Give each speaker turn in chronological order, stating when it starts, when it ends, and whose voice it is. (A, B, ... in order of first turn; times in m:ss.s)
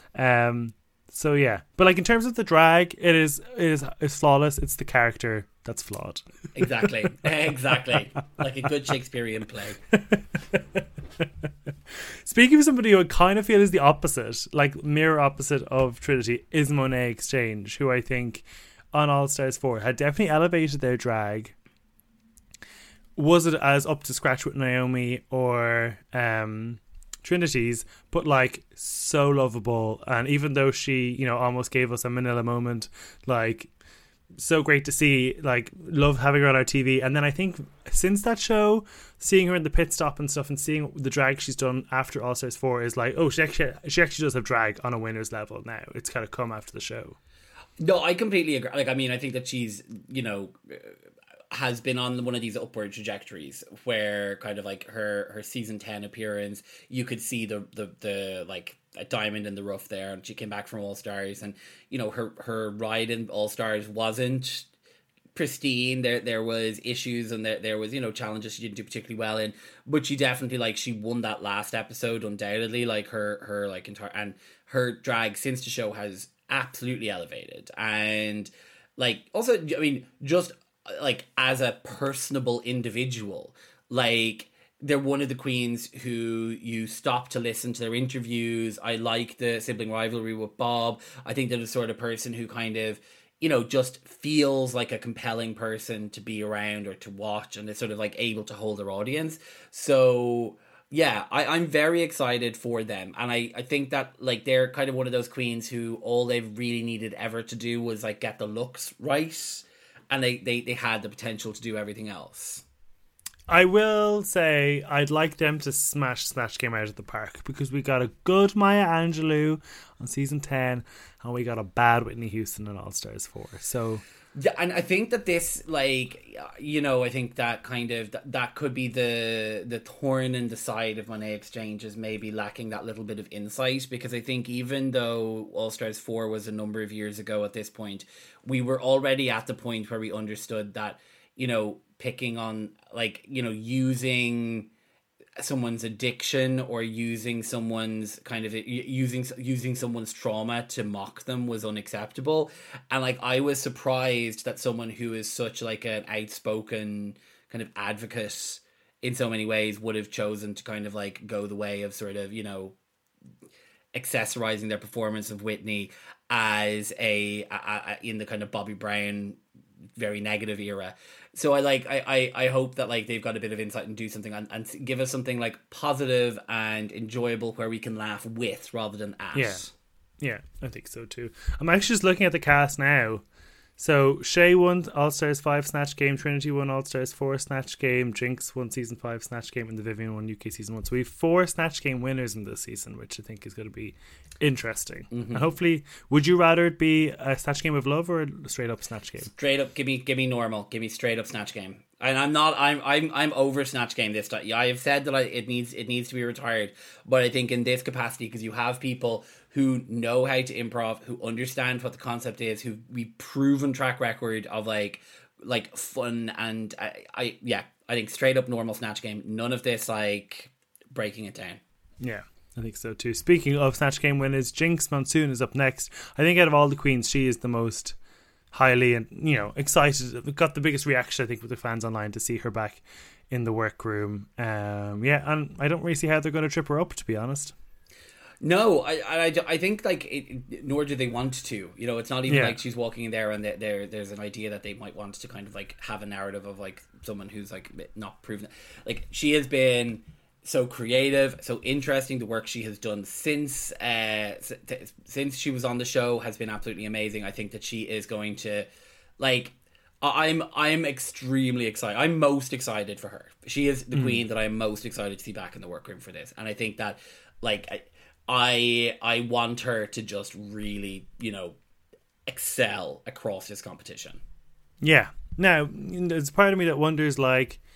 0:00.1-0:06.2 A
0:06.5-0:09.8 B
0:10.0-0:11.2 A
0:12.2-0:21.5 A
0:23.2-0:33.7 A
0:34.4-0:47.2 A
0:47.8-0:51.0 B
0:51.5-1:04.7 B
1:05.3-1:52.6 B
1:53.5-2:04.0 A
2:04.3-2:24.7 B
2:25.4-2:42.8 B
2:43.9-2:49.4 B
2:50.0-2:59.7 B
2:59.3-2:59.6 A
3:00.2-3:03.2 A
3:03.8-3:19.3 A
3:15.1-3:15.5 B
3:19.3-3:41.6 B
3:42.0-3:48.0 A
3:48.5-3:57.5 A
3:58.4-4:18.6 B
4:02.3-4:02.6 A
4:19.2-4:31.6 B
4:32.3-4:34.2 B
4:34.8-4:37.6 A